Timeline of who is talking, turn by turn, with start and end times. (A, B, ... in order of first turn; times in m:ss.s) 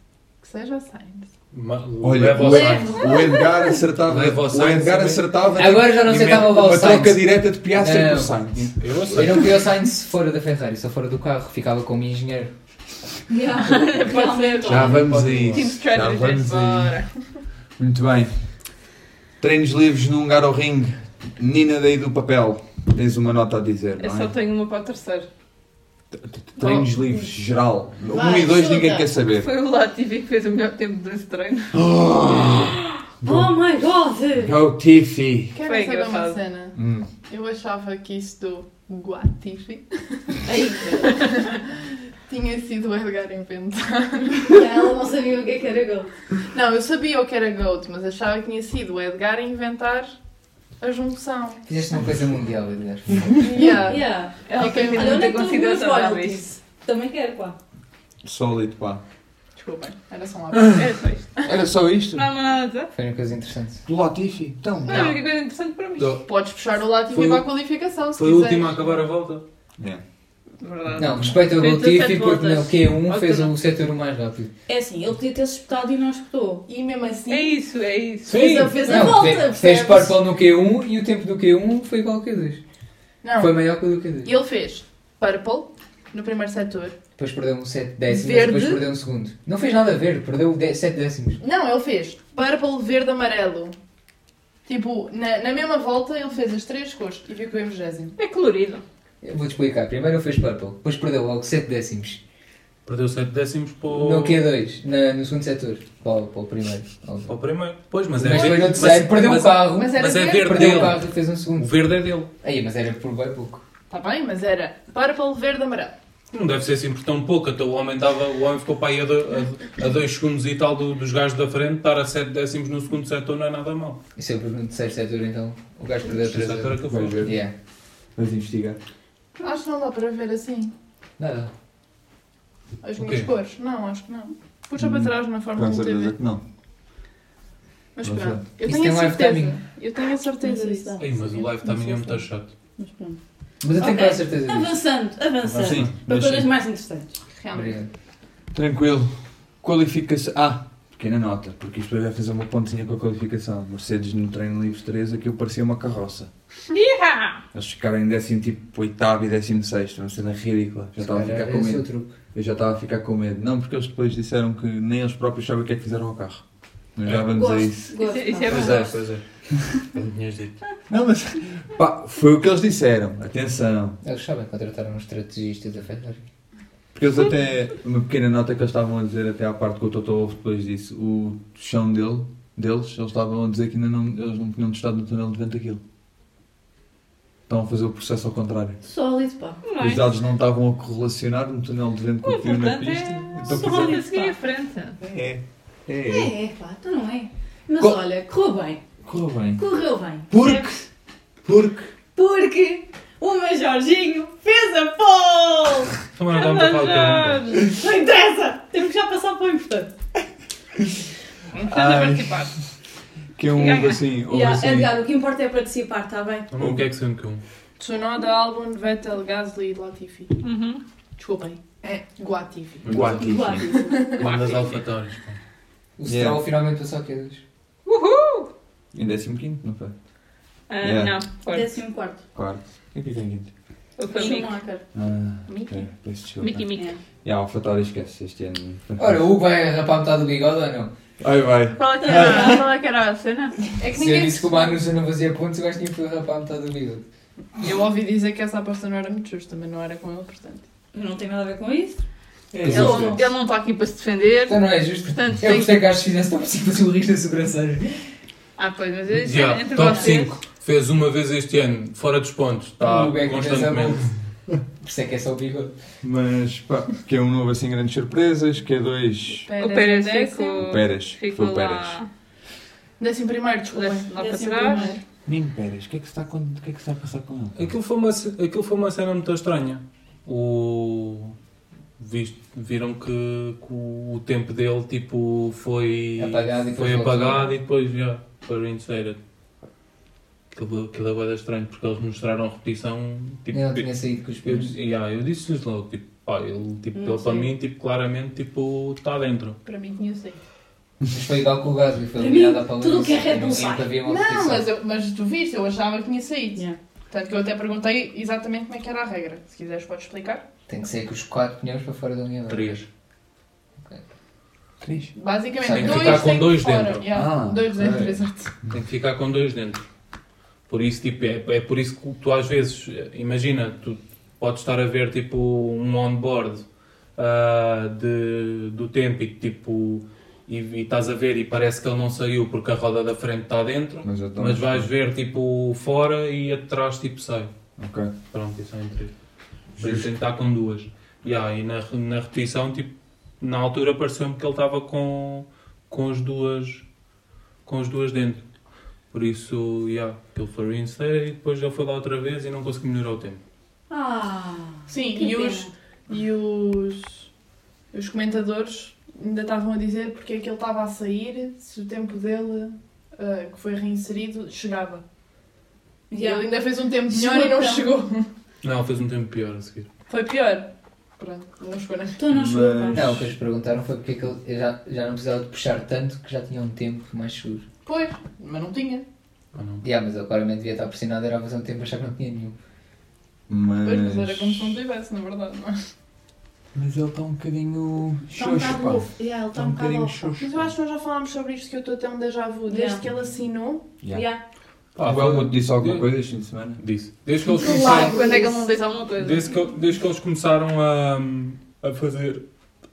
0:00.4-0:01.3 A
0:01.5-0:03.0 B
0:02.0-0:09.5 C
0:02.4-0:03.8 D
0:04.0-0:05.3 B
0:05.5-0:08.5 E
0:08.5-0:09.5 B
0:09.1-0:12.5 E
0:13.3-0:15.2 D
0:13.6-0:17.0 F
0:14.7-0:17.0 C
0:14.7-0:15.7 B
0:17.8-0:18.4 C
0:19.4-0:24.3 C
0:24.0-0:25.3 F
0:26.2-0:29.5 C
0:28.1-0:29.1 D
0:29.4-0:31.8 F
0:31.7-0:33.6 C
0:33.2-0:34.6 D
0:34.4-0:35.6 C
0:35.5-0:41.8 A
0:35.6-0:36.4 F
0:36.8-0:37.1 C
0:40.5-0:41.2 D
0:42.3-0:44.7 A
0:44.5-0:46.1 D
0:46.5-0:50.1 A
0:50.8-0:51.7 A
0:51.7-0:53.4 E
0:53.5-0:55.3 A
0:53.5-0:57.6 D
0:54.5-0:56.4 F
0:58.2-0:59.0 C
0:59.6-1:00.9 A
1:00.8-1:01.4 F
1:01.4-1:02.3 C
1:02.1-1:02.9 F
1:02.9-1:03.8 E
1:03.9-1:05.2 C
1:04.9-1:06.2 F
1:04.9-1:05.2 A
1:06.2-1:09.0 A
1:08.2-1:09.4 B
1:10.6-1:13.6 F
1:11.0-1:14.5 E
1:14.7-1:16.6 D
1:16.7-1:17.6 A
1:17.3-1:18.8 F
1:18.3-1:19.2 B
1:18.3-1:20.2 D
1:18.9-1:22.6 E
1:23.2-1:23.7 A
1:23.4-1:24.3 E
1:24.2-1:27.0 A
1:27.2-1:31.4 E
1:28.1-1:28.9 A
1:31.4-1:33.8 A
1:34.7-1:38.2 A
1:38.2-1:38.8 F
1:39.2-1:42.2 E
1:42.9-1:44.4 B
1:43.9-1:47.3 E
1:47.3-1:51.0 B
1:48.2-1:51.9 E
1:49.7-1:51.0 A
1:51.6-1:52.3 B
1:52.4-1:53.6 E
1:53.9-1:56.0 A
1:56.3-2:04.0 B
2:04.2-2:07.5 E
2:06.1-2:07.3 B
2:06.8-2:07.5 C
2:08.2-2:08.8 C
2:09.4-2:10.7 A
2:11.2-2:11.5 E
2:12.8-2:16.2 A
2:13.0-2:13.3 B
2:14.8-2:16.4 C
2:18.0-2:21.0 A
2:18.0-2:18.5 C
2:18.6-2:19.6 E
2:20.4-2:23.2 D
2:21.0-2:22.5 B
2:23.6-2:24.8 E
2:23.8-2:27.2 D
2:25.5-2:25.9 B
2:25.6-2:26.5 C
2:27.3-2:27.8 A
2:27.5-2:27.9 E
2:28.5-2:36.3 C
2:36.7-2:37.4 F
2:37.5-2:46.4 C
2:41.0-2:42.2 E
2:47.0-2:48.0 C
2:47.3-2:48.9 D
2:48.0-2:48.9 F
2:48.5-2:50.6 B
2:50.9-2:54.0 C
2:54.0-2:56.2 E
2:56.9-3:05.8 C
3:07.5-3:08.8 C
3:08.8-3:09.7 D
3:09.6-3:10.1 F
3:09.8-3:14.0 C
3:12.2-3:15.0 F
3:13.4-3:14.3 D
3:15.0-3:16.3 C
3:16.0-3:18.8 D
3:19.0-3:19.7 C
3:19.6-3:20.6 D
3:20.3-3:20.9 C
3:21.4-3:21.9 C
3:22.2-3:25.9 D
3:26.2-3:27.4 B
3:26.3-3:27.7 F
3:27.4-3:29.9 D
3:31.5-3:32.5 F
3:31.6-3:32.5 C
3:33.4-3:35.0 C
3:33.5-3:34.0 F
3:34.2-3:36.5 D
3:36.5-3:37.4 B
3:37.8-3:40.3 A
3:40.4-3:40.8 F
3:41.2-3:44.3 A
3:42.8-3:43.3 B
3:42.9-3:43.7 C
3:43.0-3:44.2 D
3:44.2-3:45.4 B
3:46.0-3:47.4 E
3:46.1-3:46.4 C
3:47.9-3:48.5 F
3:48.9-3:50.0 C
3:50.7-3:51.7 F
3:50.8-3:51.2 C
3:51.4-3:52.3 D
3:52.3-3:53.5 C
3:54.0-3:54.6 F
3:54.1-3:54.9 D
3:54.9-3:56.7 C
3:55.5-3:55.8 A
3:56.4-3:56.9 F
3:56.7-3:57.0 D
3:57.2-3:59.2 C
3:59.0-4:00.9 E
4:01.2-4:02.7 C
4:01.8-4:03.6 F
4:02.0-4:02.6 D
4:03.8-4:04.8 A
4:03.9-4:07.0 E
4:07.6-4:10.7 A
4:10.9-4:12.0 D
4:12.5-4:13.2 C
4:12.6-4:13.2 D
4:12.7-4:15.8 F
4:14.5-4:18.0 E
4:18.6-4:20.4 F
4:19.2-4:24.1 B
4:19.8-4:20.2 D
4:22.8-4:24.1 E
4:24.8-4:25.7 E
4:26.0-4:29.5 C
4:29.4-4:30.7 A
4:29.6-4:32.1 F
4:30.6-4:32.0 C
4:33.0-4:35.0 A
4:33.7-4:34.9 F
4:34.2-4:35.0 D
4:35.3-4:37.7 C
4:37.6-4:41.4 B
4:42.0-4:49.2 B
4:46.2-4:47.5 E
4:50.5-4:59.6 B
4:53.5-4:54.8 E
4:56.9-4:57.5 D
4:59.6-5:00.4 A
5:01.1-5:04.7 E
5:02.2-5:03.9 D
5:04.0-5:10.4 A
5:10.7-5:12.8 E
5:12.5-5:12.9 B
5:14.8-5:15.1 C
5:15.1-5:18.5 A
5:15.6-5:16.4 E
5:15.7-5:17.1 B
5:17.1-5:18.8 C
5:18.7-5:19.8 B
5:20.7-5:26.6 B
5:27.2-5:37.5 B
5:34.0-5:34.9 C
5:37.8-5:38.1 C
5:38.3-5:39.1 B
5:39.8-5:40.1 C
5:39.8-5:46.8 B
5:47.7-5:48.4 B
5:49.1-5:53.4 B
5:53.9-5:55.7 D
5:54.9-5:57.3 A
5:57.9-6:05.0 A
6:06.1-6:06.5 D
6:06.2-6:08.3 A
6:07.1-6:08.0 D
6:08.6-6:09.9 B
6:10.1-6:12.3 A
6:12.2-6:13.2 D
6:12.3-6:13.3 C
6:12.9-6:17.6 E
6:17.8-6:19.1 A
6:19.5-6:19.8 B
6:19.8-6:22.6 E
6:23.5-6:24.8 C
6:23.8-6:25.8 A
6:26.7-6:30.7 C
6:28.4-6:30.3 D
6:30.4-6:34.0 A
6:32.7-6:33.0 D
6:34.0-6:34.3 C
6:34.1-6:34.4 D
6:35.0-6:36.1 B
6:35.0-6:36.8 C
6:36.8-6:38.2 B
6:37.6-6:38.5 A
6:37.6-6:39.5 F
6:39.2-6:42.4 B